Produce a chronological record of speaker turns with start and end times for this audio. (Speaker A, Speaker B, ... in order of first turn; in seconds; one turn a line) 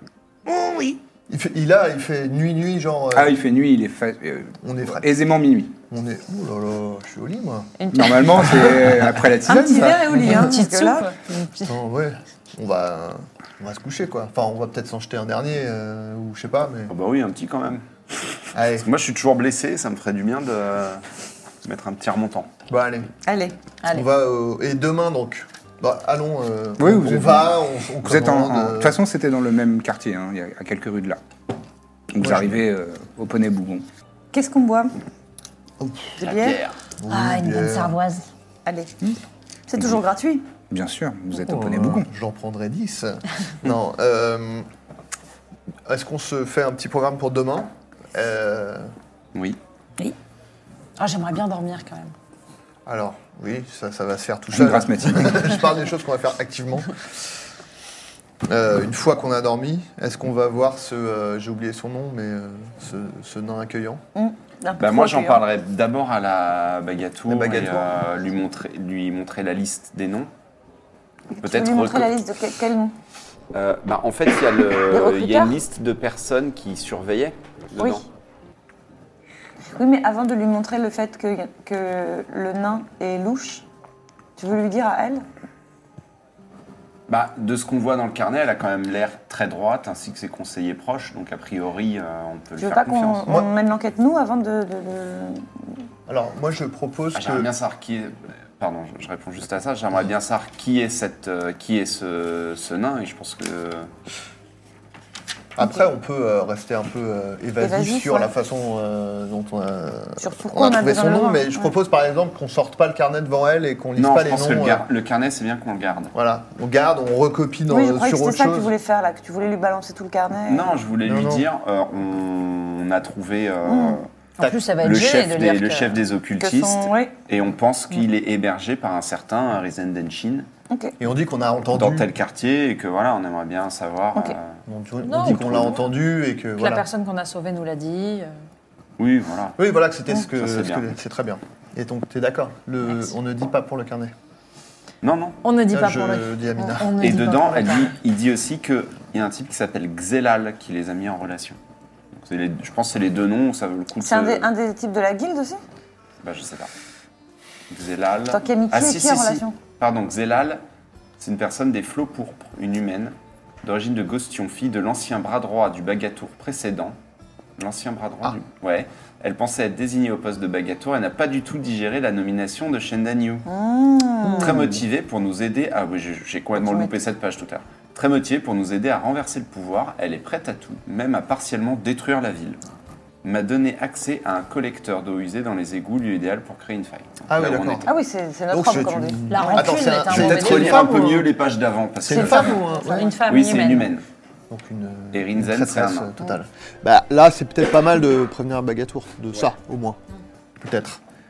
Speaker A: 0.5-1.0
Speaker B: 1.3-3.3
Speaker A: 3.1-5.8
Speaker B: 4.6-5.0
Speaker B: 5.9-7.7
Speaker C: 7.8-8.3
Speaker A: 7.9-10.0
Speaker B: 8.3-9.1
Speaker D: 9.4-11.1
Speaker B: 9.9-10.5
Speaker C: 10.1-11.8
Speaker B: 11.6-16.9
Speaker E: 16.9-17.8
Speaker B: 18.5-18.9
Speaker E: 18.8-21.0
Speaker E: 21.6-22.5
Speaker B: 22.7-23.1
Speaker D: 23.2-23.6
Speaker B: 23.9-28.9
Speaker A: 26.8-31.2
Speaker A: 32.1-33.9
Speaker B: 32.2-32.6
Speaker D: 34.3-34.9
Speaker B: 35.8-36.2
Speaker D: 36.2-36.6
Speaker E: 36.2-36.8
Speaker B: 37.0-38.0
Speaker C: 37.1-38.2
Speaker D: 38.6-38.9
Speaker D: 39.7-40.5
Speaker A: 39.8-40.0
Speaker A: 40.7-42.1
Speaker B: 41.4-44.7
Speaker B: 45.9-48.9
Speaker E: 49.3-49.6
Speaker C: 51.0-52.1
Speaker B: 52.9-57.3
Speaker A: 54.5-55.6
Speaker B: 58.4-64.0
Speaker D: 64.1-65.4
Speaker E: 64.8-70.3
Speaker B: 67.3-67.9
Speaker D: 71.3-72.9
Speaker E: 71.4-72.1
Speaker E: 73.5-78.0
Speaker D: 74.9-75.5
Speaker D: 77.8-78.0
Speaker D: 79.7-83.7
Speaker D: 84.4-85.2
Speaker E: 87.1-93.3
Speaker D: 92.6-95.7
Speaker B: 96.1-97.5
Speaker E: 97.1-103.9
Speaker B: 105.5-114.8
Speaker D: 107.6-108.3
Speaker D: 110.2-111.7
Speaker E: 114.0-116.1
Speaker B: 116.1-118.7
Speaker D: 117.7-120.8
Speaker E: 120.5-124.1
Speaker B: 121.0-121.5
Speaker D: 123.6-124.0
Speaker C: 124.4-126.0
Speaker B: 124.4-124.7
Speaker E: 124.8-130.5
Speaker D: 126.4-127.1
Speaker D: 130.7-130.9
Speaker B: 131.0-132.1
Speaker E: 131.7-134.6
Speaker B: 134.7-136.9
Speaker C: 135.0-135.7
Speaker E: 135.2-135.8
Speaker C: 136.6-138.3
Speaker E: 139.0-139.6
Speaker B: 139.6-144.1
Speaker E: 140.2-140.9
Speaker E: 145.0-145.4
Speaker C: 145.4-148.0
Speaker B: 145.7-147.0
Speaker E: 147.0-151.6
Speaker E: 152.2-154.5
Speaker D: 154.0-155.6
Speaker E: 156.2-156.7
Speaker E: 157.7-160.6
Speaker D: 158.3-159.6
Speaker E: 161.2-167.0
Speaker E: 167.6-173.4
Speaker D: 173.5-174.7
Speaker E: 174.4-182.6
Speaker D: 176.6-176.9
Speaker E: 183.2-187.9
Speaker B: 187.3-187.9
Speaker D: 187.8-189.4
Speaker B: 188.5-191.3
Speaker C: 189.3-190.9
Speaker E: 190.1-192.6
Speaker B: 192.0-193.2
Speaker C: 192.1-193.9
Speaker E: 193.3-194.0
Speaker B: 194.5-200.0
Speaker E: 195.1-196.1
Speaker B: 200.6-201.0